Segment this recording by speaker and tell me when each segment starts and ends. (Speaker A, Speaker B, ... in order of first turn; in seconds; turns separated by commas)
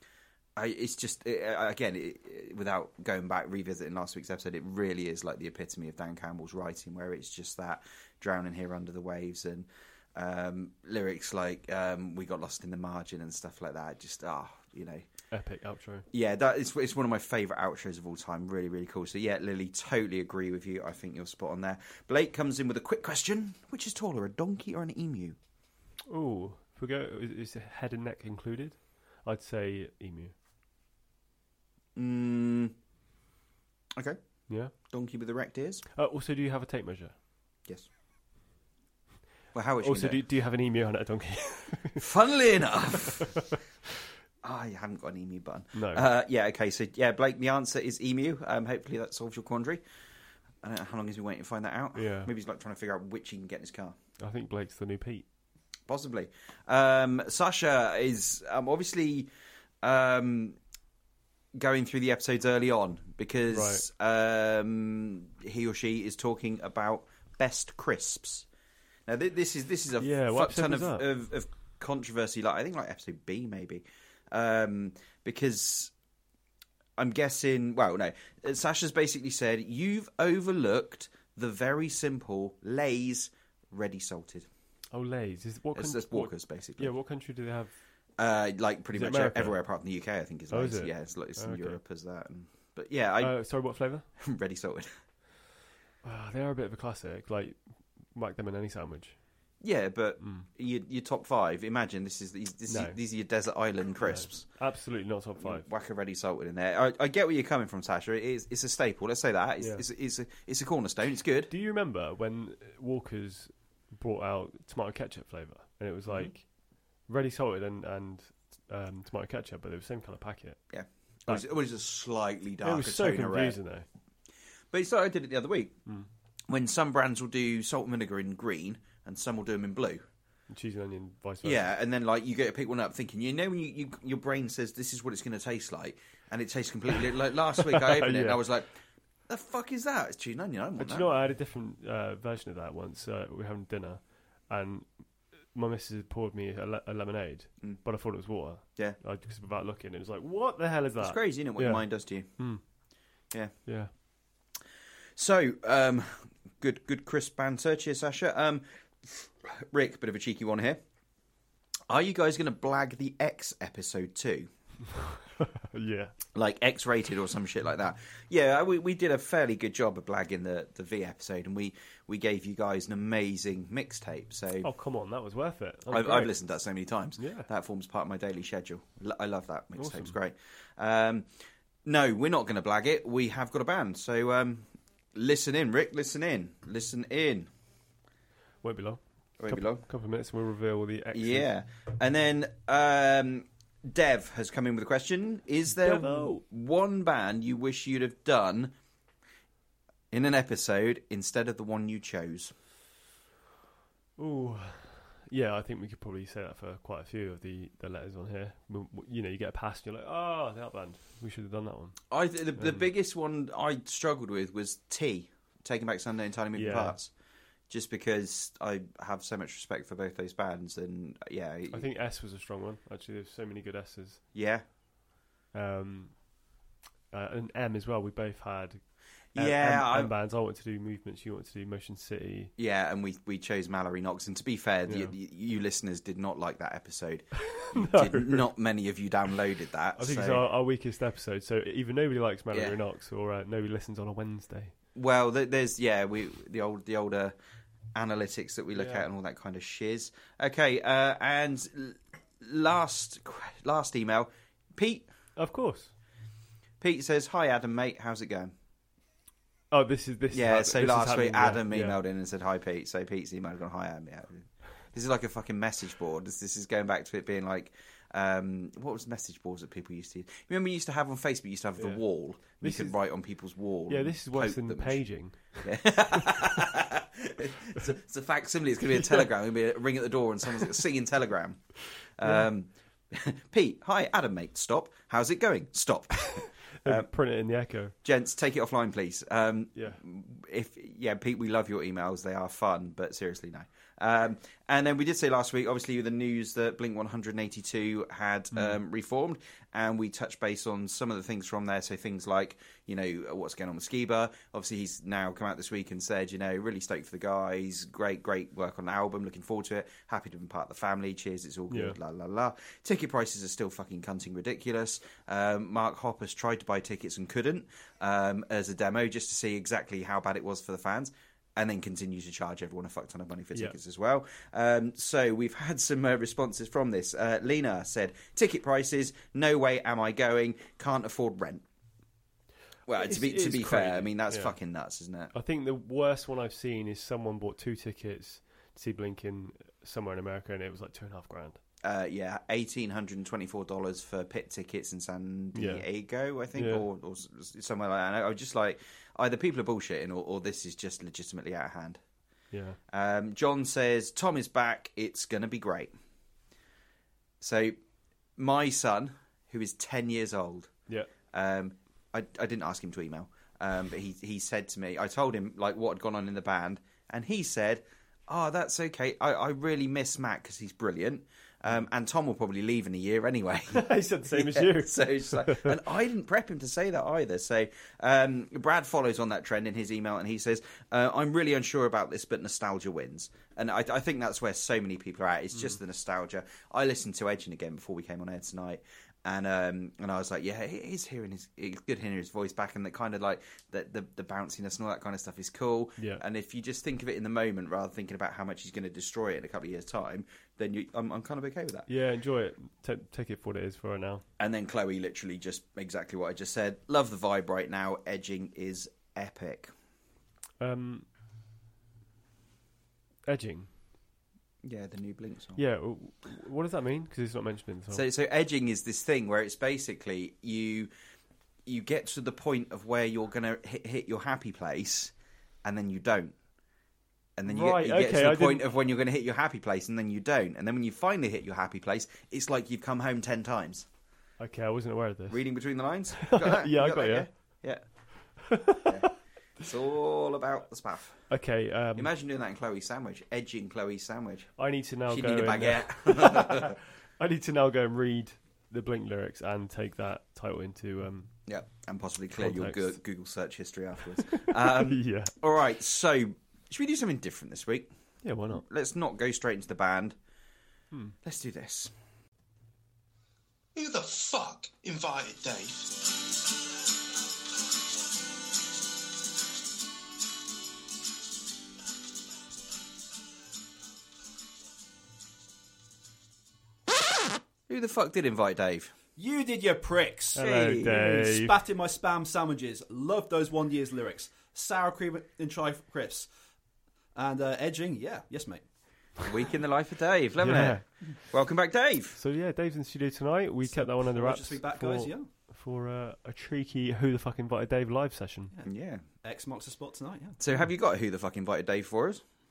Speaker A: 0.6-15.1, Speaker B: 15.3-16.1, Speaker A: 16.1-25.4, Speaker B: 26.1-30.3, Speaker A: 31.9-32.7, Speaker A: 34.0-35.8, Speaker B: 34.5-34.7, Speaker B: 36.0-37.1, Speaker A: 39.5-40.2, Speaker B: 39.8-42.0, Speaker A: 42.0-43.3, Speaker A: 44.4-49.8, Speaker B: 45.7-46.0, Speaker A: 50.6-54.0, Speaker B: 51.9-52.3, Speaker B: 54.2-55.2, Speaker A: 55.9-59.3, Speaker A: 59.8-60.6, Speaker A: 61.5-68.5, Speaker B: 63.5-63.8, Speaker A: 69.1-75.9, Speaker B: 70.0-71.0, Speaker A: 77.0-84.5, Speaker B: 84.9-87.8, Speaker A: 85.7-86.9, Speaker A: 88.2-93.7, Speaker B: 88.9-89.7, Speaker B: 90.5-91.8, Speaker B: 93.2-94.1, Speaker A: 94.2-95.0, Speaker B: 96.0-99.2, Speaker A: 99.6-104.6, Speaker B: 100.2-100.5, Speaker B: 102.7-103.0, Speaker B: 104.0-105.7, Speaker A: 105.4-111.5, Speaker B: 109.6-109.8, Speaker B: 111.5-121.5, Speaker A: 116.1-116.3, Speaker A: 120.7-123.6, Speaker B: 122.6-123.8, Speaker A: 124.7-125.8, Speaker A: 126.5-130.0, Speaker B: 130.5-131.7, Speaker A: 131.4-138.7, Speaker B: 137.8-138.4, Speaker A: 139.3-141.1, Speaker B: 140.8-153.9, Speaker A: 151.0-152.6, Speaker A: 153.3-153.7, Speaker A: 155.2-160.8, Speaker A: 161.9-164.5, Speaker B: 165.5-166.1, Speaker A: 166.3-174.7, Speaker B: 174.6-176.5, Speaker A: 175.9-181.3, Speaker B: 177.2-177.5, Speaker B: 179.7-180.1, Speaker A: 181.8-187.5, Speaker B: 188.6-191.5, Speaker A: 189.4-189.8, Speaker A: 191.1-198.7, Speaker B: 195.8-196.4, Speaker A: 200.1-202.5, Speaker B: 204.2-212.8, Speaker A: 212.1-217.1, Speaker B: 216.5-217.0, Speaker A: 217.7-221.8, Speaker B: 221.7-224.2, Speaker A: 224.3-224.7, Speaker B: 225.5-226.5, Speaker B: 227.1-232.5, Speaker A: 229.3-230.1, Speaker A: 232.6-240.4, Speaker B: 234.9-235.1, Speaker B: 237.5-238.5, Speaker B: 240.0-244.7, Speaker A: 242.5-242.8, Speaker A: 244.9-247.3, Speaker A: 247.9-255.1, Speaker B: 248.7-249.1, Speaker B: 255.3-255.9, Speaker A: 256.8-258.5, Speaker B: 259.7-262.0, Speaker A: 260.3-275.0, Speaker B: 271.8-273.0, Speaker B: 273.9-276.4, Speaker A: 275.6-287.1, Speaker B: 282.2-282.5, Speaker B: 286.8-287.9, Speaker A: 288.0-331.6, Speaker B: 298.5-298.8, Speaker B: 311.7-312.0, Speaker A: 332.9-335.3, Speaker B: 332.9-334.5, Speaker B: 335.3-341.6, Speaker A: 341.8-352.0, Speaker B: 345.5-345.9, Speaker B: 346.5-346.8, Speaker B: 352.5-352.8, Speaker A: 352.9-355.9, Speaker A: 357.4-357.8, Speaker A: 358.4-360.7, Speaker A: 361.3-401.9, Speaker B: 373.7-375.8, Speaker B: 396.0-396.2, Speaker B: 401.9-404.2, Speaker A: 404.4-409.7, Speaker B: 410.6-411.1, Speaker B: 413.2-413.7, Speaker A: 414.6-415.6, Speaker B: 415.6-418.0, Speaker A: 417.9-420.9, Speaker A: 421.6-425.1, Speaker A: 425.6-426.4, Speaker A: 427.4-433.9, Speaker B: 427.5-428.7, Speaker B: 434.4-437.6, Speaker A: 435.3-441.3, Speaker B: 438.4-439.1, Speaker B: 441.3-442.1, Speaker A: 441.9-446.8, Speaker B: 444.6-451.4, Speaker A: 451.4-457.9, Speaker B: 452.4-453.0, Speaker B: 454.2-455.3, Speaker B: 458.2-458.6, Speaker A: 458.5-460.2, Speaker A: 461.2-461.9, Speaker C: 463.8-465.7, Speaker A: 477.7-478.9, Speaker D: 479.2-486.3, Speaker B: 480.3-481.6, Speaker A: 480.4-480.9, Speaker D: 487.1-488.7, Speaker A: 489.2-492.2, Speaker B: 490.4-491.2, Speaker B: 492.1-498.5, Speaker D: 493.6-495.3, Speaker D: 498.5-500.4, Speaker A: 498.6-499.0, Speaker A: 500.4-502.2